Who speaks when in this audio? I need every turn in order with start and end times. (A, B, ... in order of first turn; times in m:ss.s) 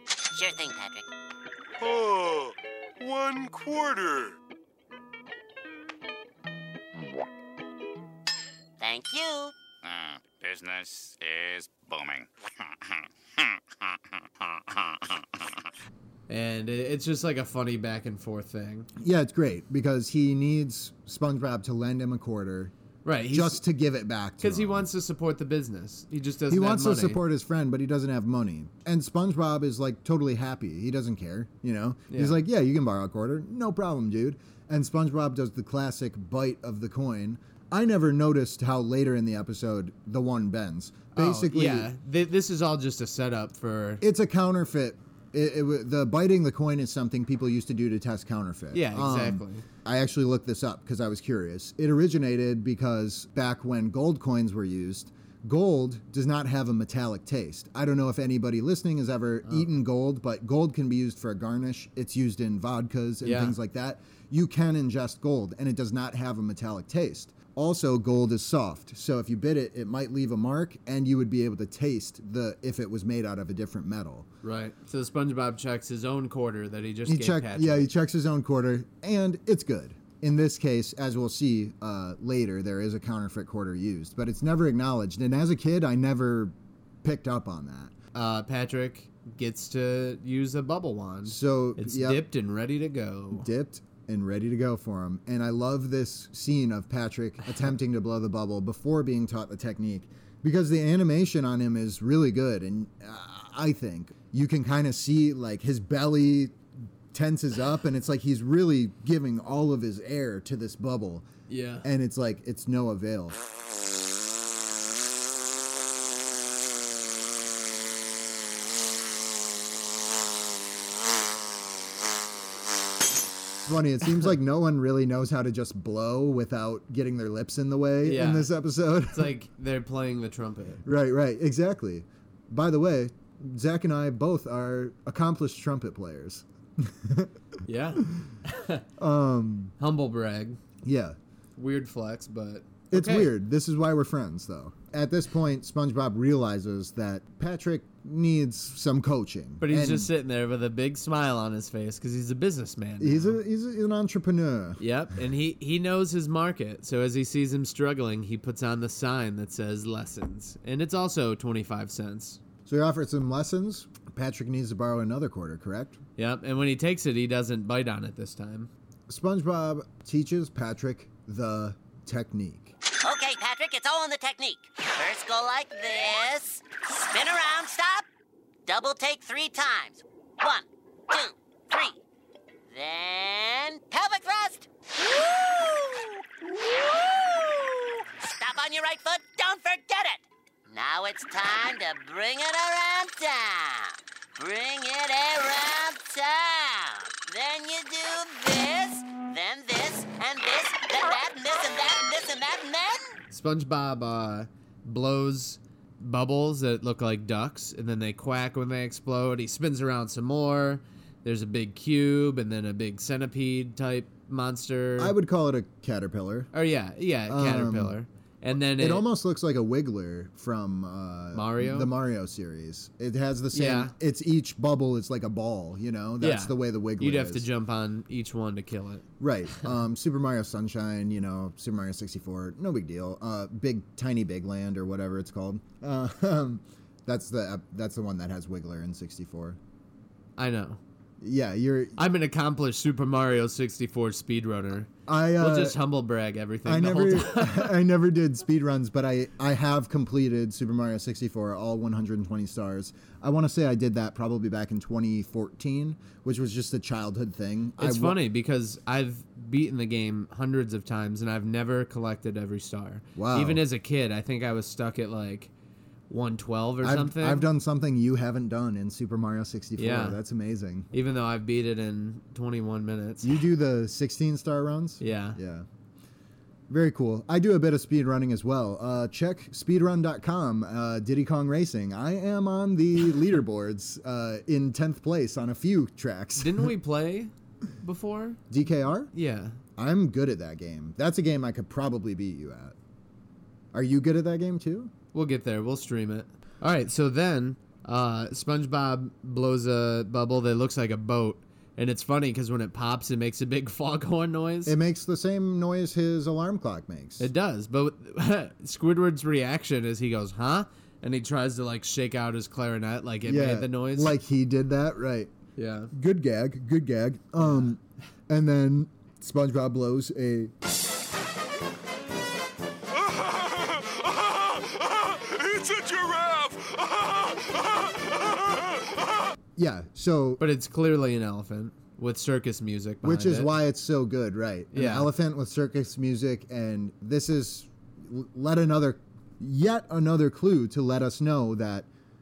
0:00.3-0:01.1 A
0:01.8-0:04.4 B
0:08.8-0:09.5 A
0:09.9-0:12.3 C
0:16.3-0:18.9 D
0:19.0-0:22.7 E
0:23.0-0:23.6 D
0:23.3-0:24.9 E
0:24.4-0:27.2 D
0:26.5-0:41.9 E
0:32.1-0:32.4 D
0:41.2-0:44.0 D
0:44.0-1:14.3 E
0:48.7-0:49.6 D
1:03.2-1:03.6 D
1:14.4-1:17.9 D
1:17.1-1:27.9 E
1:28.1-1:33.5 D
1:31.3-1:32.2 E
1:33.3-1:46.6 E
1:47.1-1:51.3 E
1:51.5-1:51.9 D
1:51.8-1:53.4 E
2:03.6-2:09.4 E
2:08.0-2:08.5 D
2:09.1-2:10.8 D
2:10.8-2:17.3 E
2:17.7-2:18.8 D
2:18.0-2:18.2 E
2:19.0-2:19.8 E
2:19.8-2:20.6 D
2:20.8-2:21.2 E
2:21.6-2:23.3 D
2:22.9-2:30.1 E
2:29.6-2:33.4 D
2:33.0-2:34.8 E
2:34.8-2:42.4 D
2:42.7-2:46.0 E
2:46.2-2:48.7 D
2:49.1-2:52.8 E
2:53.0-2:58.1 A
2:58.7-3:02.0 A
3:02.7-3:23.2 A
3:23.3-3:35.2 D
3:35.0-3:36.5 E
3:36.5-3:39.1 D
3:37.3-3:38.0 E
3:38.7-3:47.5 E
3:41.3-3:41.9 D
3:43.5-3:43.9 D
3:46.2-3:49.0 D
3:49.2-3:59.6 E
4:00.4-4:00.8 D
4:01.2-4:02.0 E
4:02.0-4:07.7 D
4:05.1-4:05.8 E
4:06.6-4:18.2 E
4:17.8-4:25.5 D
4:23.2-4:23.6 E
4:26.1-4:27.5 D
4:26.8-4:30.9 E
4:29.8-4:30.2 D
4:30.9-4:33.3 D
4:33.2-4:35.7 E
4:35.0-4:35.4 D
4:36.7-4:46.7 E
4:46.4-4:48.4 D
4:48.5-4:49.1 E
4:49.1-4:49.6 D
4:49.8-4:52.8 E
4:53.7-4:54.9 E
4:55.1-5:04.8 D
5:04.6-5:07.3 E
5:07.2-5:14.2 D
5:13.2-5:15.3 E
5:15.6-5:15.9 D
5:15.9-5:20.5 E
5:17.4-5:17.7 D
5:22.9-5:29.4 B
5:29.6-5:30.4 E
5:30.4-5:33.5 D
5:33.0-5:41.9 E
5:34.7-5:35.1 D